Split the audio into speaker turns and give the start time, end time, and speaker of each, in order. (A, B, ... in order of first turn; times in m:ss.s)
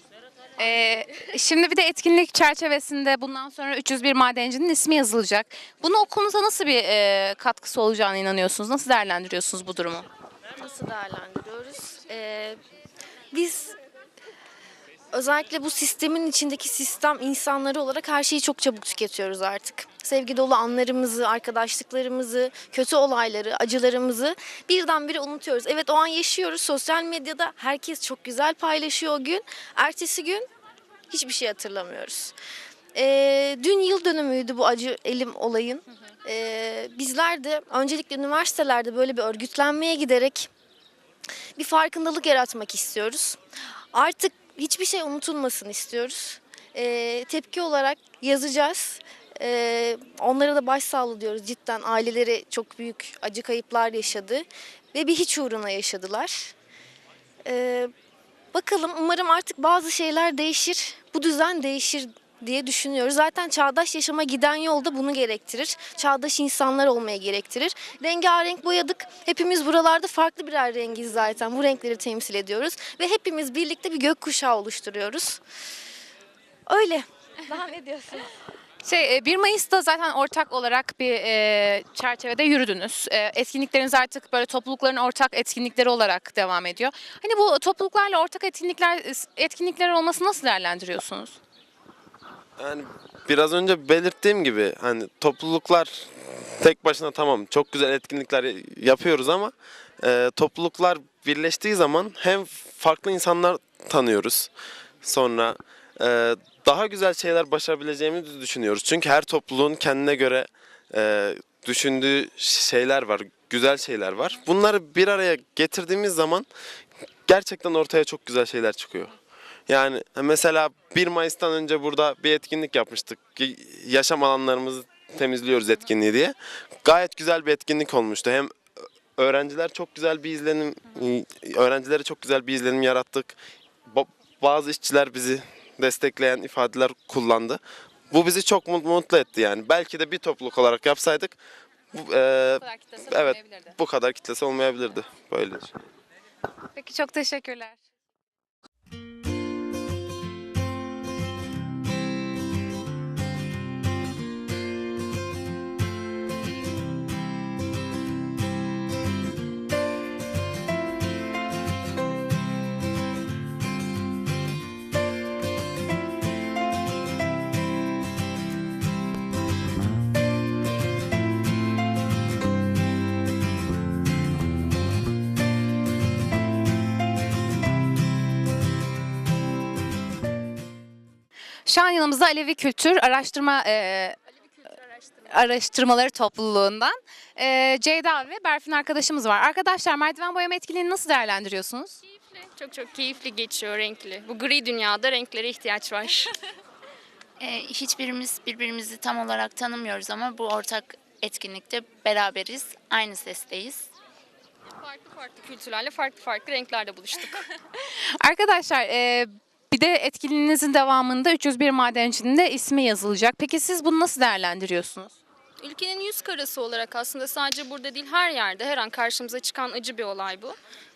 0:00.6-0:10.1 A
0:10.6-0:12.6 B
0:13.3-0:13.8 B
0:15.1-0:30.5 B
0:31.1-0:32.3 B
0:32.9-0:40.5 B
0:41.6-0:43.4 B
0:43.9-0:56.5 B
0:57.4-0:57.9 B
0:58.5-1:15.4 B
1:16.7-1:18.3 B
1:18.8-1:31.4 A
1:32.6-1:44.5 C
1:45.0-1:56.5 C
1:57.2-1:59.1 C
1:59.7-2:08.5 C
2:09.2-2:13.4 C
2:13.9-2:21.4 C
2:21.9-2:25.8 C
2:22.6-2:23.7 A
2:26.7-2:27.8 A
3:01.6-3:04.2 A
3:04.6-3:05.2 D
3:05.3-3:12.0 A
3:12.2-3:16.4 D
3:17.4-3:23.9 E
3:24.8-3:27.4 D
3:28.2-3:35.1 A
3:35.6-3:40.6 D